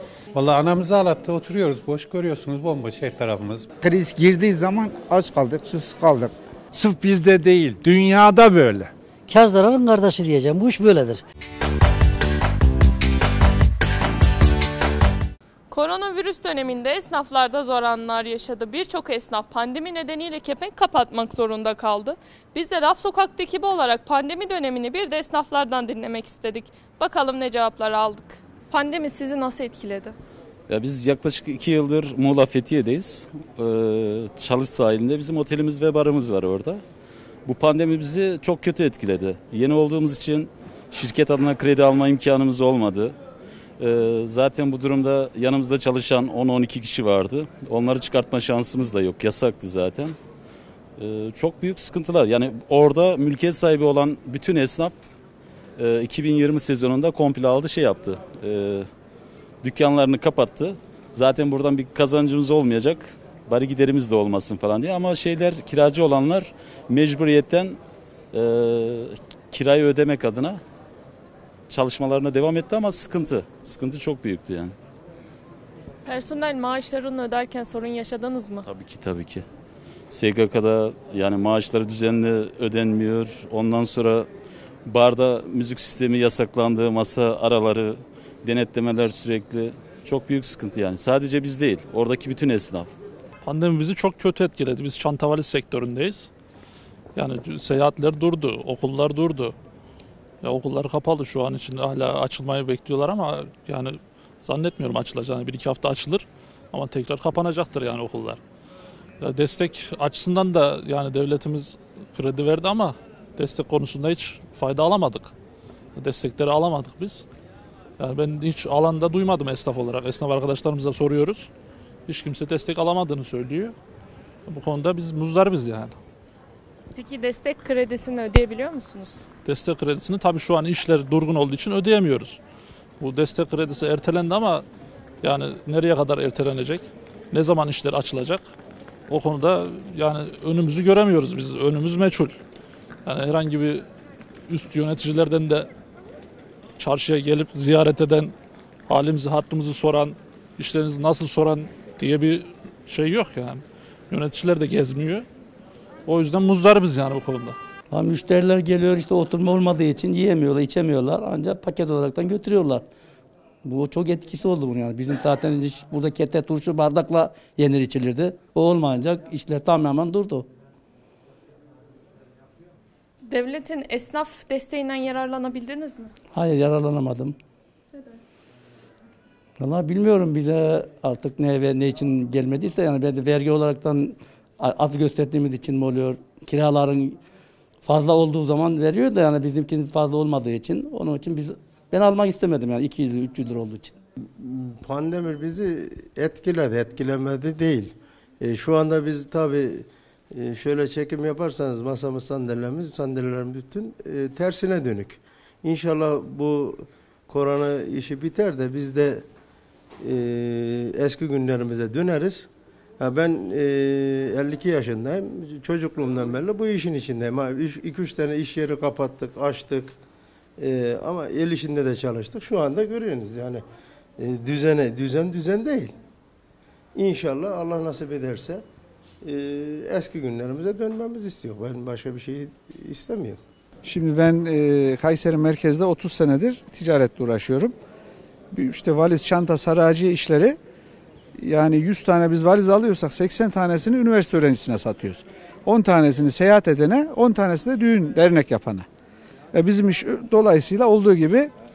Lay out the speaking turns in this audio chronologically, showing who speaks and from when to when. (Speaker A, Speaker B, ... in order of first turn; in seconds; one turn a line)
Speaker A: 0.3-3.6
Speaker B: 3.8-6.3
Speaker C: 6.7-8.9
Speaker D: 9.3-11.2
Speaker E: 15.7-30.1
Speaker F: 30.7-36.8
Speaker F: 37.5-43.1
Speaker F: 43.8-50.1
Speaker F: 51.0-54.9
Speaker F: 55.8-58.9
Speaker F: 59.6-67.8
Speaker F: 68.3-70.6
Speaker F: 71.7-74.7
Speaker E: 76.0-78.6
Speaker F: 78.6-79.4
Speaker F: 80.1-84.3
Speaker F: 84.8-92.9
Speaker G: 93.4-96.3
Speaker G: 97.2-99.5
Speaker G: 100.4-108.4
Speaker G: 109.2-115.3
Speaker G: 116.0-117.2
Speaker G: 118.0-121.5
Speaker G: 122.1-123.7
Speaker G: 124.5-126.0
Speaker E: 127.0-129.2
Speaker G: 129.4-132.4
Speaker G: 133.0-134.6
Speaker G: 135.2-138.4
Speaker G: 139.1-142.3
Speaker G: 143.1-143.8
Speaker G: 144.5-145.7
Speaker G: 146.8-148.3
Speaker G: 148.9-155.2
Speaker G: 156.1-157.6
Speaker H: 157.9-162.8
Speaker H: 163.6-170.5
Speaker E: 173.3-176.1
Speaker H: 176.3-177.3
Speaker H: 179.6-187.2
Speaker H: 187.8-193.9
Speaker I: 194.4-209.3
Speaker I: 210.0-219.9
Speaker I: 220.6-223.6
Speaker I: 224.2-225.9
Speaker I: 226.9-228.6
Speaker I: 229.2-233.4
Speaker J: 233.8-237.7
Speaker J: 238.5-240.6
Speaker J: 241.4-248.8
Speaker J: 249.5-251.5